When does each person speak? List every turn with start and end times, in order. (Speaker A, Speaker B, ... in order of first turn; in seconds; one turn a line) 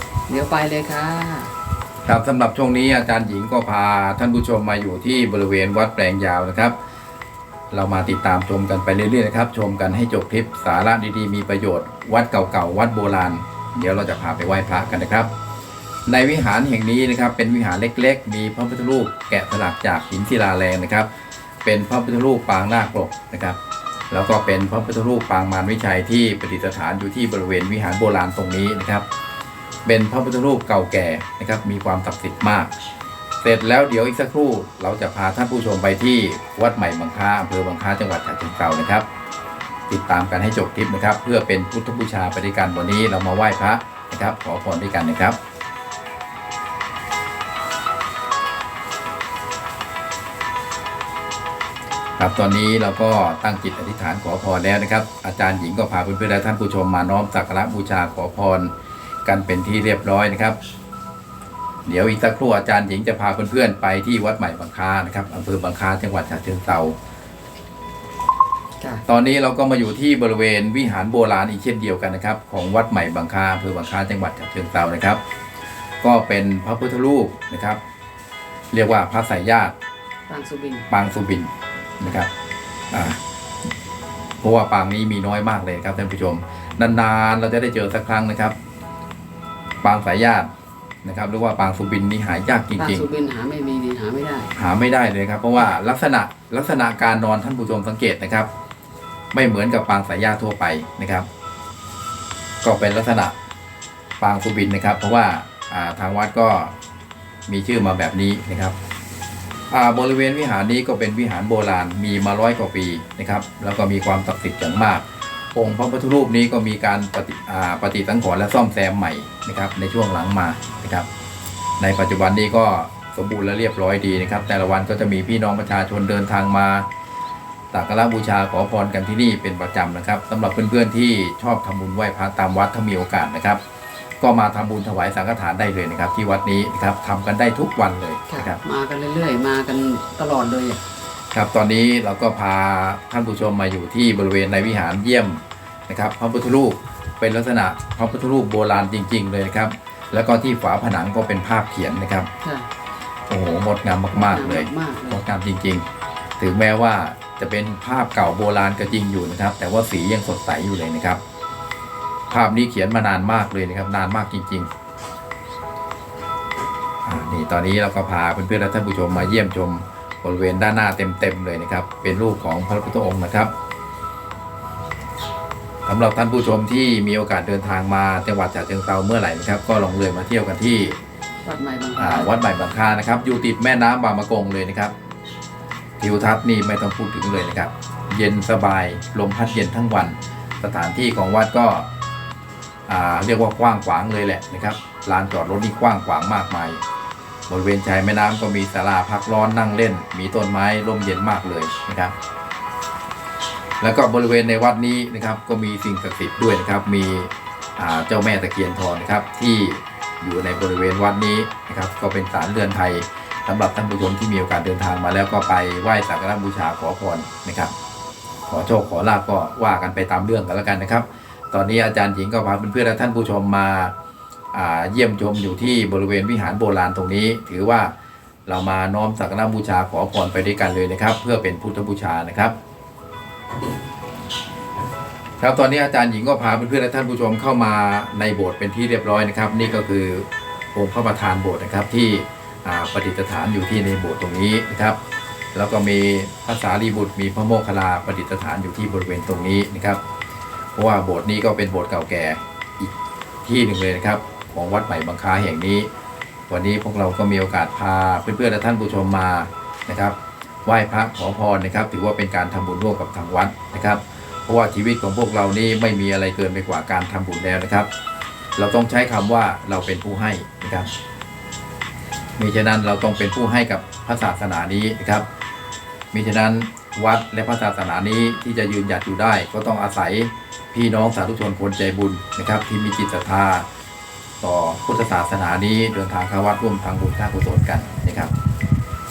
Speaker A: 0.3-1.5
Speaker B: 2.0-6.8
Speaker B: 7.7-15.3
Speaker B: 16.1-21.1
Speaker B: 21.6-23.6
Speaker B: 24.1-29.0
Speaker B: 29.9-32.7
Speaker B: 33.4-39.0
Speaker B: 39.9-45.4
Speaker B: 52.2-58.7
Speaker B: 59.2-60.6
Speaker B: 61.9-67.0
Speaker B: 69.0-75.2
Speaker B: 76.0-77.8
Speaker B: 78.7-79.7
Speaker A: 80.3-80.9
Speaker B: 80.9-82.3
Speaker B: 82.9-83.2
Speaker B: 84.4-88.5
Speaker B: 89.8-90.5
Speaker B: 91.0-93.1
Speaker A: 92.8-94.5
Speaker B: 94.5-98.5
Speaker B: 99.3-101.3
Speaker B: 102.6-103.3
Speaker B: 104.2-106.7
Speaker B: 107.5-108.8
Speaker B: 109.7-121.1
Speaker B: 121.8-126.9
Speaker B: 127.7-133.6
Speaker B: 134.2-138.6
Speaker A: 138.3-140.8
Speaker B: 141.3-152.3
Speaker A: 152.4-152.7
Speaker B: 153.3-155.8
Speaker A: 154.1-155.2
Speaker B: 156.4-161.2
Speaker B: 162.3-164.7
Speaker B: 167.0-173.5
Speaker B: 175.8-181.0
Speaker A: 181.4-182.3
Speaker B: 181.9-184.9
Speaker B: 186.0-191.9
Speaker B: 192.9-196.8
Speaker B: 197.5-202.1
Speaker B: 203.8-217.7
Speaker B: 218.5-223.9
Speaker B: 224.5-227.9
Speaker B: 228.4-232.5
Speaker B: 235.4-245.0
Speaker B: 245.5-250.0
Speaker B: 250.7-252.9
Speaker B: 253.4-255.9
Speaker B: 256.5-267.9
Speaker B: 268.6-270.9
Speaker B: 272.4-275.3
Speaker B: 276.1-283.6
Speaker B: 284.4-288.3